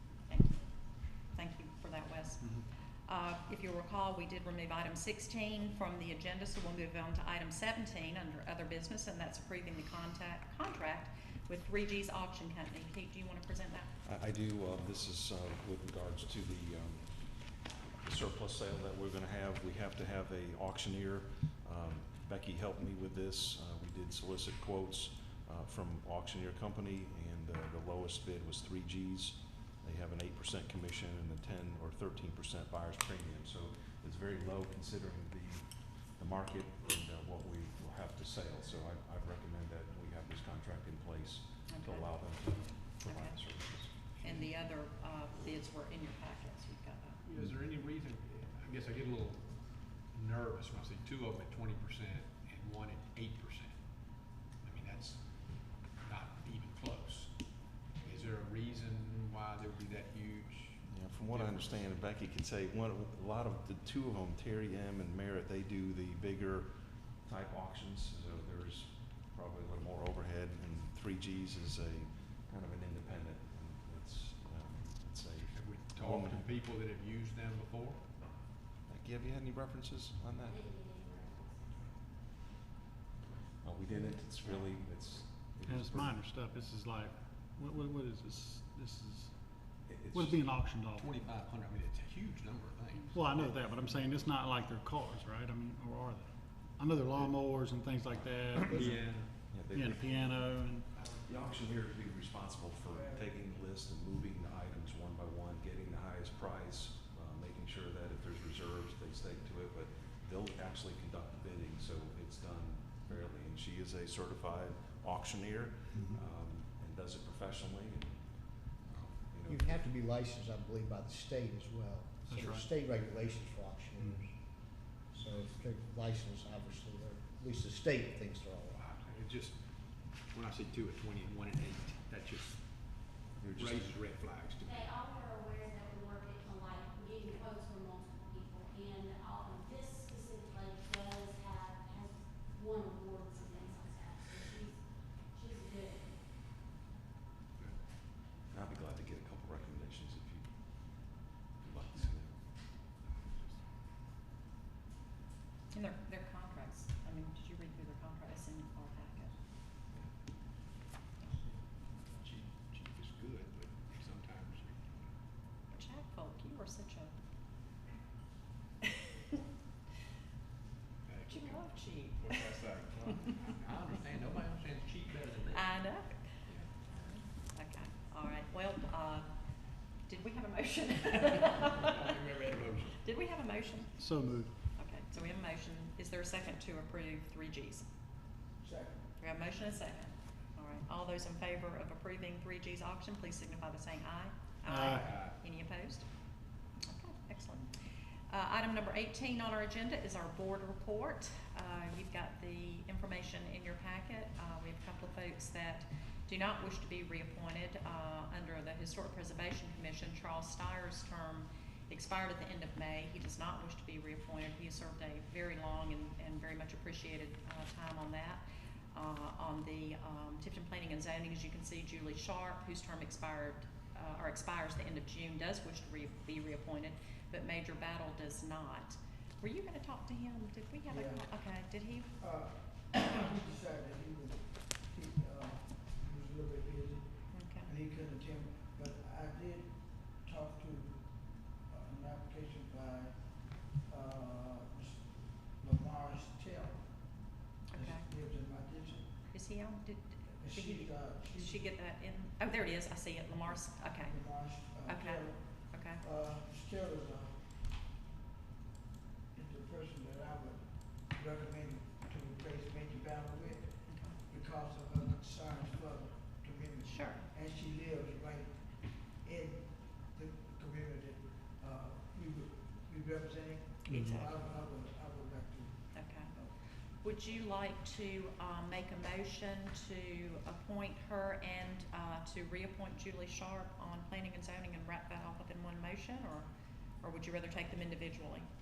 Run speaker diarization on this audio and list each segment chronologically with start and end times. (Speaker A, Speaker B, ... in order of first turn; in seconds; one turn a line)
Speaker A: 0.3-13.9
Speaker B: 14.0-44.2
Speaker A: 41.7-42.3
Speaker A: 42.9-43.5
Speaker A: 44.2-47.2
Speaker C: 47.2-53.8
Speaker C: 54.6-61.9
Speaker B: 60.9-76.6
Speaker C: 75.5-78.1
Speaker B: 78.9-80.6
Speaker D: 80.5-81.8
Speaker B: 83.6-86.3
Speaker E: 85.7-89.4
Speaker B: 89.9-90.5
Speaker E: 90.1-91.1
Speaker C: 91.0-94.1
Speaker E: 93.1-100.9
Speaker B: 97.1-97.5
Speaker B: 98.1-100.5
Speaker C: 98.7-99.4
Speaker B: 101.0-119.9
Speaker F: 102.9-103.3
Speaker E: 115.9-116.2
Speaker G: 119.5-128.9
Speaker E: 122.3-122.7
Speaker E: 124.0-124.2
Speaker C: 128.7-135.0
Speaker B: 133.4-133.9
Speaker D: 134.6-146.1
Speaker B: 148.5-152.8
Speaker C: 153.1-153.6
Speaker A: 155.7-159.3
Speaker C: 162.0-165.1
Speaker A: 165.7-167.1
Speaker C: 171.1-175.8
Speaker A: 171.3-172.6
Speaker A: 173.1-173.6
Speaker A: 175.5-179.3
Speaker C: 176.5-176.7
Speaker A: 180.0-182.1
Speaker C: 181.7-183.1
Speaker A: 183.0-187.9
Speaker E: 184.0-184.5
Speaker F: 188.6-189.1
Speaker A: 189.2-196.1
Speaker E: 194.7-195.1
Speaker C: 195.0-195.3
Speaker A: 196.8-197.7
Speaker A: 198.3-218.4
Speaker A: 218.9-232.1
Speaker F: 230.9-231.6
Speaker F: 232.2-249.2
Speaker A: 237.3-237.7
Speaker A: 247.7-248.1
Speaker A: 249.3-256.0
Speaker F: 250.4-251.8
Speaker F: 254.0-257.4
Speaker F: 259.3-275.8
Speaker A: 263.9-264.2
Speaker A: 266.8-267.3
Speaker A: 273.8-274.4
Speaker A: 275.9-286.5
Speaker A: 287.0-288.5